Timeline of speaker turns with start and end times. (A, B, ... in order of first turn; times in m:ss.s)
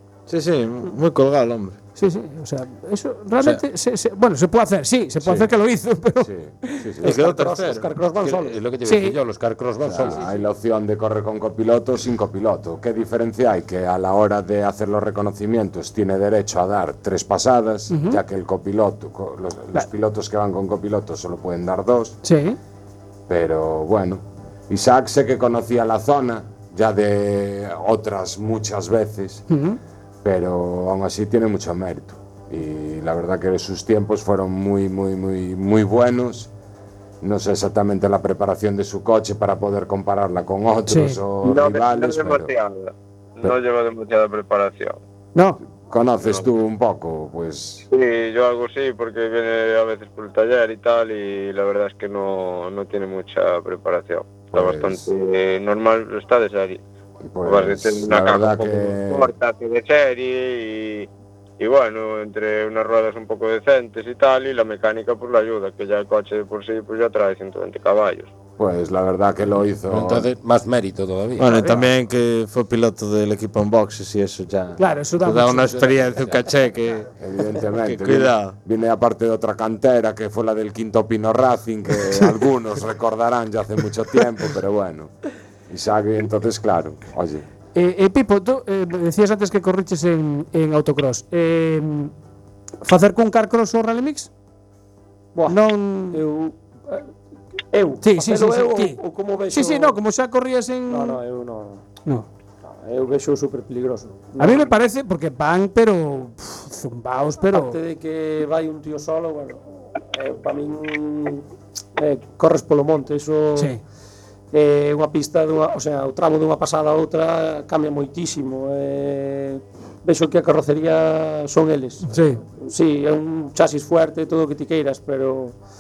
0:00.3-0:01.8 A
0:02.0-0:06.9 B
0:05.2-0:05.5 C
0:06.2-0:07.2 C
0:07.0-0:08.0 A
0:07.0-0:08.6 D
0:08.2-0:10.2 E
0:08.8-0:09.2 B
0:09.8-0:22.2 C
0:17.9-0:18.2 B
0:22.2-0:22.6 B
0:23.3-0:29.4 C
0:29.5-0:29.8 B
0:30.2-0:36.5 C
0:37.2-0:42.5 C
0:40.9-0:41.2 B
0:41.4-0:45.0 F
0:45.8-0:47.9 C
0:47.9-0:56.8 F
0:54.5-0:55.1 C
0:57.2-0:59.3 C
0:57.4-1:01.1 F
1:01.6-1:08.3 F
1:08.6-1:10.3 C
1:09.9-1:11.5 E
1:11.4-1:18.6 A
1:11.4-1:11.8 B
1:14.8-1:16.0 B
1:17.2-1:25.1 C
1:22.0-1:22.4 A
1:25.7-1:27.4 C
1:27.7-1:32.1 B
1:32.8-1:34.3 B
1:35.3-1:37.1 D
1:35.5-1:36.2 B
1:37.7-1:40.0 D
1:38.0-1:39.0 B
1:39.5-1:41.2 B
1:40.9-1:41.8 D
1:42.6-1:44.8 D
1:44.4-1:47.8 B
1:47.5-1:53.8 D
1:54.5-2:05.6 D
2:02.1-2:02.4 B